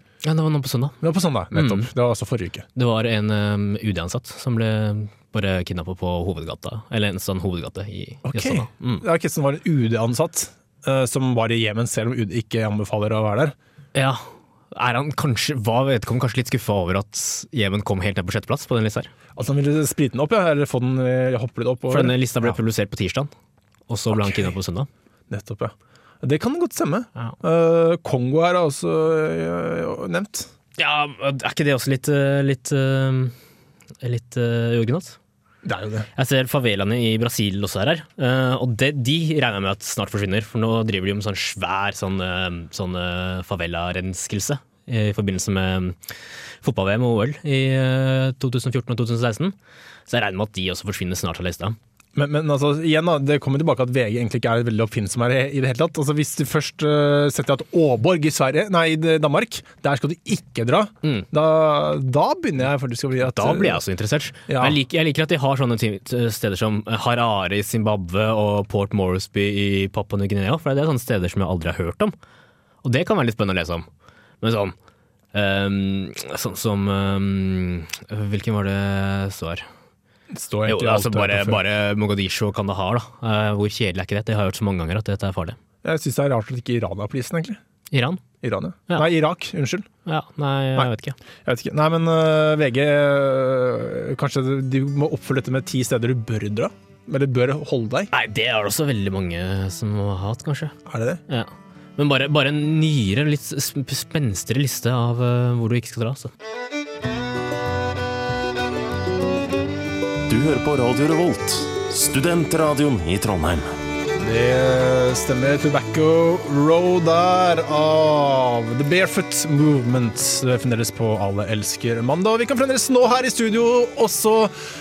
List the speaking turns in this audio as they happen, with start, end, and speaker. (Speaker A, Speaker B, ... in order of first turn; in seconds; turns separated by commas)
Speaker A: 0.2-1.0, Speaker B: 1.0-2.7, Speaker A: 1.5-1.9, Speaker A: 2.8-9.0, Speaker B: 8.2-13.6, Speaker A: 13.9-19.1, Speaker B: 19.4-22.6, Speaker A: 21.9-23.3, Speaker A: 23.9-24.9, Speaker B: 24.1-24.5, Speaker B: 25.3-30.5, Speaker A: 30.8-33.4, Speaker A: 34.0-35.2, Speaker B: 35.6-36.1, Speaker A: 36.2-46.0, Speaker A: 46.6-49.5, Speaker A: 50.1-51.8, Speaker B: 52.1-63.8, Speaker A: 63.2-72.2, Speaker B: 64.5-64.8, Speaker A: 72.8-73.9, Speaker A: 74.4-74.8, Speaker A: 75.3-79.7, Speaker B: 80.3-81.6, Speaker A: 80.7-85.6, Speaker B: 85.8-87.6, Speaker A: 87.9-88.2, Speaker B: 88.4-89.9, Speaker A: 90.1-91.2, Speaker B: 91.5-98.1, Speaker A: 98.1-100.8, Speaker B: 100.9-101.2, Speaker A: 101.3-106.3, Speaker C: 110.3-113.7, Speaker B: 114.2-124.6